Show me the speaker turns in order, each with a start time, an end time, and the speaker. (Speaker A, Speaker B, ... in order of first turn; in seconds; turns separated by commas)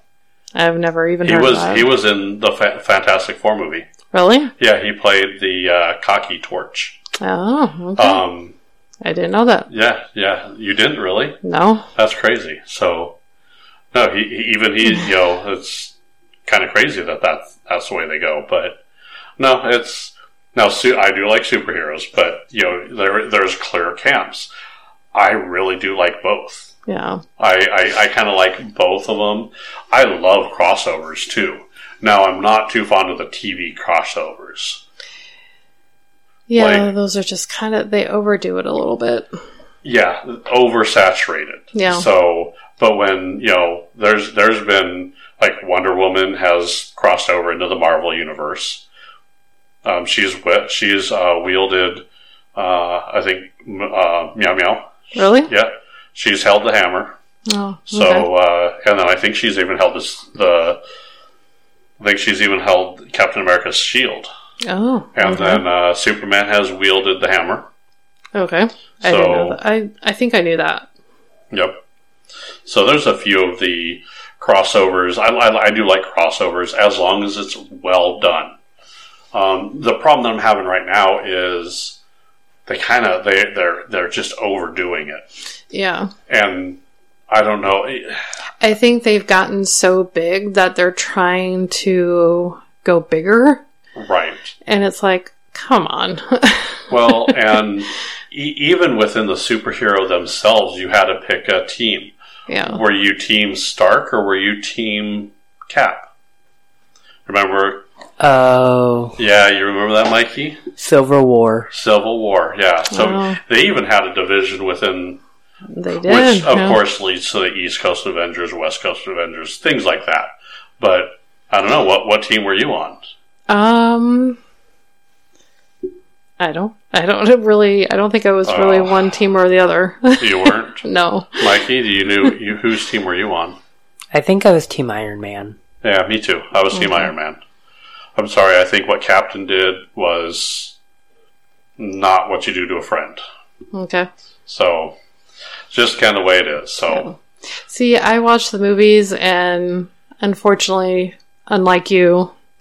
Speaker A: 0.5-1.9, Speaker B: 1.2-3.9, Speaker A: 4.1-4.5, Speaker B: 4.6-7.0, Speaker A: 7.2-8.2, Speaker B: 8.0-8.5, Speaker A: 9.0-9.7, Speaker B: 9.7-11.4, Speaker A: 11.4-11.8, Speaker B: 11.9-13.2, Speaker B: 13.9-15.9, Speaker B: 16.4-18.8, Speaker B: 19.4-24.5, Speaker B: 25.1-26.7, Speaker A: 26.9-27.2, Speaker B: 27.4-34.8, Speaker A: 36.5-39.3, Speaker B: 36.5-36.9, Speaker B: 39.8-48.8, Speaker A: 41.7-42.0, Speaker B: 49.8-52.0, Speaker B: 52.5-57.2, Speaker A: 55.1-55.5, Speaker A: 57.5-58.3, Speaker B: 57.9-60.8, Speaker B: 62.0-64.3, Speaker A: 64.6-65.6, Speaker B: 65.2-67.7, Speaker A: 68.3-70.9, Speaker B: 69.0-69.6, Speaker B: 71.5-71.8, Speaker B: 72.6-78.5, Speaker B: 79.3-82.0, Speaker B: 82.7-85.2, Speaker A: 85.7-86.1, Speaker B: 86.3-88.2, Speaker A: 88.6-93.6, Speaker B: 94.0-94.5, Speaker A: 94.7-97.3, Speaker B: 96.9-102.1, Speaker A: 102.5-102.8, Speaker B: 102.6-106.1, Speaker B: 107.2-107.8, Speaker C: 108.2-109.2, Speaker B: 109.2-110.6, Speaker C: 110.8-111.7, Speaker B: 111.7-115.2, Speaker A: 112.9-113.4, Speaker A: 115.7-116.8, Speaker B: 116.0-123.0, Speaker A: 123.5-124.4, Speaker A: 126.4-131.5, Speaker B: 128.4-129.1, Speaker B: 130.2-130.8, Speaker B: 131.4-133.6, Speaker C: 134.1-135.6, Speaker B: 135.8-137.4, Speaker A: 136.7-137.1, Speaker B: 138.2-140.8, Speaker B: 141.8-143.2, Speaker A: 143.7-144.1, Speaker B: 144.5-144.9, Speaker B: 145.7-147.1, Speaker A: 146.9-152.3